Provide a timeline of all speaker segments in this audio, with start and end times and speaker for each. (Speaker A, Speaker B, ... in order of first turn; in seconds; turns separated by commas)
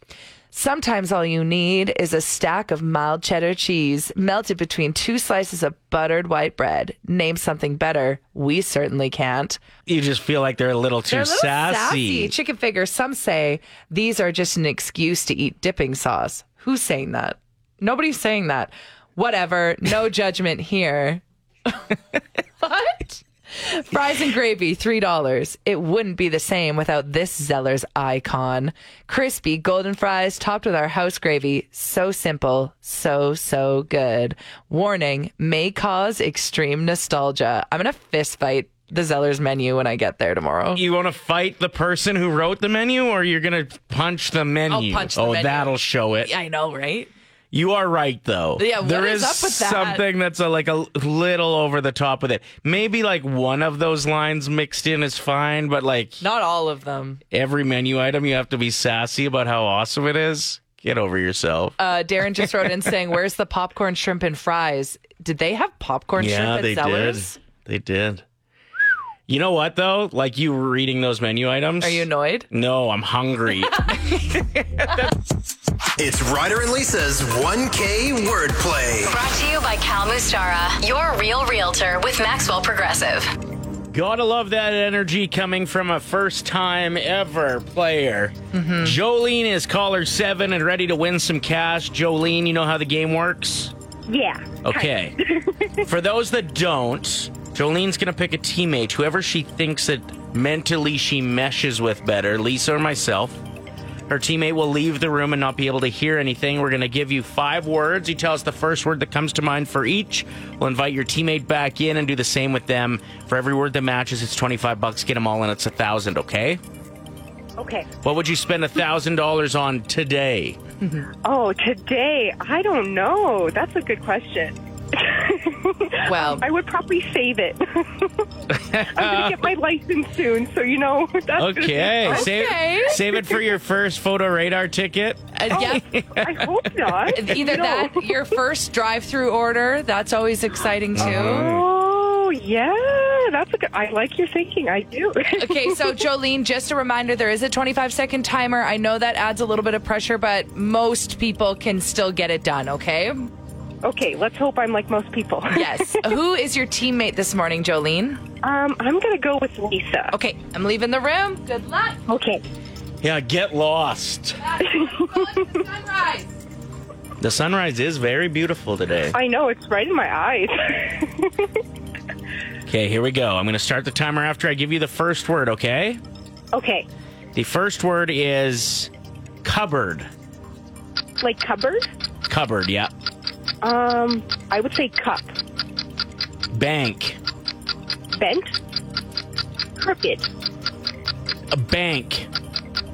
Speaker A: 0.5-9.6, Speaker B: 9.9-12.3, Speaker A: 11.1-21.7, Speaker A: 22.6-40.8, Speaker B: 40.7-46.3, Speaker A: 44.7-47.1, Speaker B: 47.5-56.2, Speaker A: 48.6-50.0, Speaker A: 56.2-57.2, Speaker B: 57.3-61.8, Speaker A: 61.8-67.4, Speaker B: 66.2-68.2, Speaker B: 69.3-74.2, Speaker A: 71.8-72.5, Speaker B: 74.8-75.1, Speaker C: 76.0-79.2, Speaker D: 79.3-83.3, Speaker B: 83.9-93.7, Speaker A: 88.5-89.0, Speaker E: 94.1-94.6, Speaker B: 94.6-95.2, Speaker E: 95.2-95.7, Speaker B: 95.8-103.4, Speaker B: 104.1-116.6, Speaker E: 117.6-117.9, Speaker B: 118.0-120.6, Speaker A: 120.8-121.1, Speaker E: 121.2-128.3, Speaker A: 126.0-126.5, Speaker B: 128.5-129.5, Speaker E: 128.9-132.2, Speaker B: 131.4-137.5, Speaker A: 132.1-133.0, Speaker A: 135.3-135.8, Speaker E: 135.5-138.1, Speaker A: 137.1-141.5, Speaker B: 141.0-141.7, Speaker E: 141.3-145.7, Speaker A: 145.4-153.2, Speaker E: 153.8-156.1, Speaker A: 155.5-158.2, Speaker E: 158.4-160.2, Speaker A: 160.1-162.0, Speaker E: 162.1-162.5, Speaker B: 163.0-164.5, Speaker A: 164.4-166.3, Speaker E: 164.7-165.3, Speaker B: 167.2-169.2, Speaker E: 169.1-171.6, Speaker B: 172.7-176.0, Speaker E: 176.5-176.9, Speaker B: 177.3-178.9, Speaker B: 179.4-180.1, Speaker E: 181.2-181.9, Speaker B: 182.3-182.9, Speaker E: 183.6-185.4, Speaker B: 186.5-187.2, Speaker E: 188.2-188.6, Speaker E: 189.8-190.3, Speaker B: 191.5-192.3